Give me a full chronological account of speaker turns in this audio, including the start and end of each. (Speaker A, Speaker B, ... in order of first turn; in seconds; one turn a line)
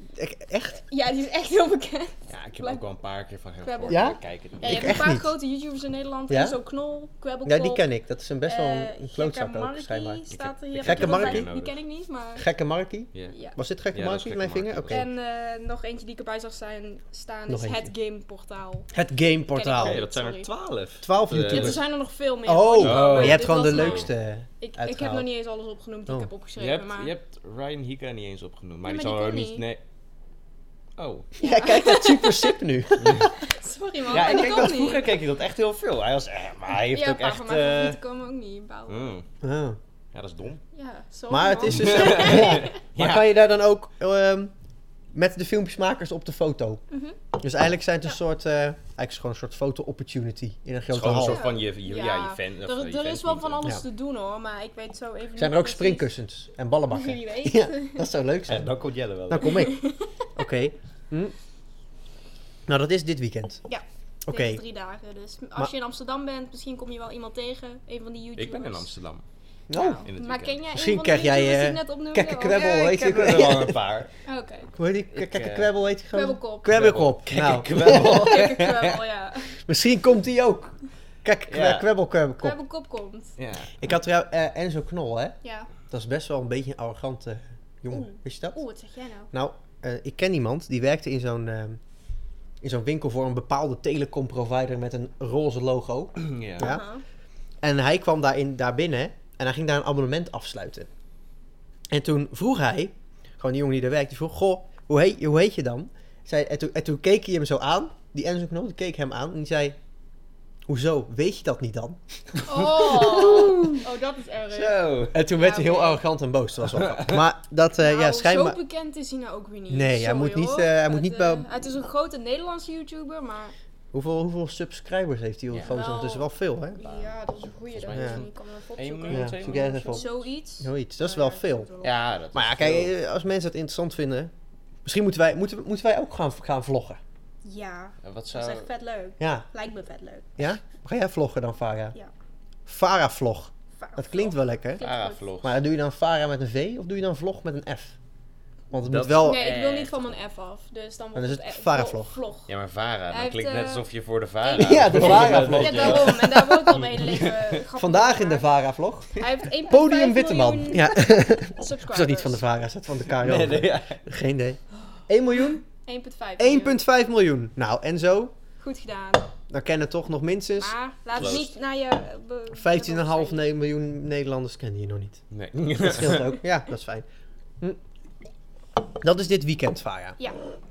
Speaker A: 0.2-0.8
Speaker B: 0.9-2.8
Speaker C: 2.3-5.0
Speaker B: 3.6-7.8
Speaker A: 3.9-5.3
Speaker A: 6.3-6.6
Speaker A: 7.5-10.2
Speaker B: 8.5-12.4
Speaker C: 10.3-11.8
Speaker A: 10.8-11.5
Speaker A: 12.4-15.1
Speaker B: 13.3-13.6
Speaker C: 13.9-15.0
Speaker B: 14.9-18.9
Speaker A: 17.5-17.9
Speaker A: 18.9-20.0
Speaker B: 19.5-20.5
Speaker C: 19.8-21.8
Speaker A: 21.0-21.8
Speaker B: 21.4-27.1
Speaker A: 22.5-25.3
Speaker C: 22.8-24.1
Speaker C: 26.6-29.8
Speaker B: 28.9-29.6
Speaker C: 31.0-31.3
Speaker B: 31.4-32.6
Speaker A: 31.4-33.3
Speaker C: 33.0-33.3
Speaker B: 33.2-35.0
Speaker C: 34.1-38.0
Speaker A: 34.1-34.6
Speaker B: 36.9-39.2
Speaker C: 38.9-39.2
Speaker A: 39.4-39.8
Speaker C: 40.1-40.6
Speaker B: 40.7-42.8
Speaker A: 41.3-44.5
Speaker C: 41.7-43.3
Speaker A: 45.1-46.8
Speaker B: 46.9-47.2
Speaker A: 47.4-51.4
Speaker C: 50.9-53.6
Speaker B: 51.2-56.1
Speaker A: 55.4-58.7
Speaker B: 56.9-58.1
Speaker C: 58.5-59.6
Speaker A: 59.3-59.8
Speaker B: 59.4-60.3
Speaker A: 60.4-61.4
Speaker A: 62.7-63.6
Speaker B: 63.7-68.9
Speaker A: 64.3-64.6
Speaker C: 68.4-69.2
Speaker A: 69.7-70.1
Speaker B: 69.8-72.9
Speaker C: 70.0-70.6
Speaker A: 70.7-73.8
Speaker C: 72.5-74.1
Speaker B: 74.3-74.7
Speaker A: 74.8-78.4
Speaker C: 75.1-75.7
Speaker B: 76.1-76.8
Speaker C: 76.7-79.0
Speaker B: 77.8-79.6
Speaker A: 79.7-82.6
Speaker C: 81.5-81.9
Speaker B: 82.4-83.3
Speaker C: 83.4-83.7
Speaker A: 83.8-85.4
Speaker B: 85.4-85.7
Speaker A: 85.9-88.6
Speaker B: 87.9-89.3
Speaker A: 89.3-91.8
Speaker A: 92.6-96.8
Speaker C: 96.2-96.7
Speaker B: 96.6-97.0
Speaker A: 97.6-100.9
Speaker A: 101.9-109.8
Speaker A: 110.7-113.8
Speaker B: 112.4-114.8
Speaker C: 113.1-113.7
Speaker C: 114.5-115.2
Speaker A: 115.1-118.6
Speaker B: 115.3-116.0
Speaker C: 116.7-117.2
Speaker B: 117.8-123.5
Speaker A: 119.7-121.5
Speaker A: 123.9-126.8
Speaker C: 125.5-125.8
Speaker B: 125.7-131.9
Speaker C: 126.8-127.1
Speaker C: 127.7-130.1
Speaker A: 127.9-128.2
Speaker A: 129.1-131.7
Speaker C: 131.8-132.9
Speaker A: 132.3-134.3
Speaker A: 134.8-137.0
Speaker B: 137.4-140.3
Speaker C: 138.0-138.7
Speaker A: 139.2-139.4
Speaker A: 140.4-141.9
Speaker A: 142.7-144.8
Speaker B: 143.8-145.2
Speaker C: 144.8-145.6
Speaker A: 145.4-148.0
Speaker A: 148.7-149.4
Speaker C: 148.8-150.1
Speaker B: 149.2-152.5
Speaker A: 151.2-152.2
Speaker C: 152.5-157.6
Speaker B: 153.1-153.9
Speaker B: 154.4-158.5
Speaker A: 154.6-156.3
Speaker A: 157.8-165.7
Speaker B: 159.1-162.4
Speaker C: 163.2-164.0
Speaker B: 165.8-166.8
Speaker A: 166.4-168.3
Speaker B: 168.6-169.3
Speaker A: 169.5-171.4
Speaker B: 170.6-173.4
Speaker C: 171.2-171.5
Speaker A: 172.6-175.2
Speaker C: 175.3-176.3
Speaker A: 175.8-177.1
Speaker A: 179.0-180.2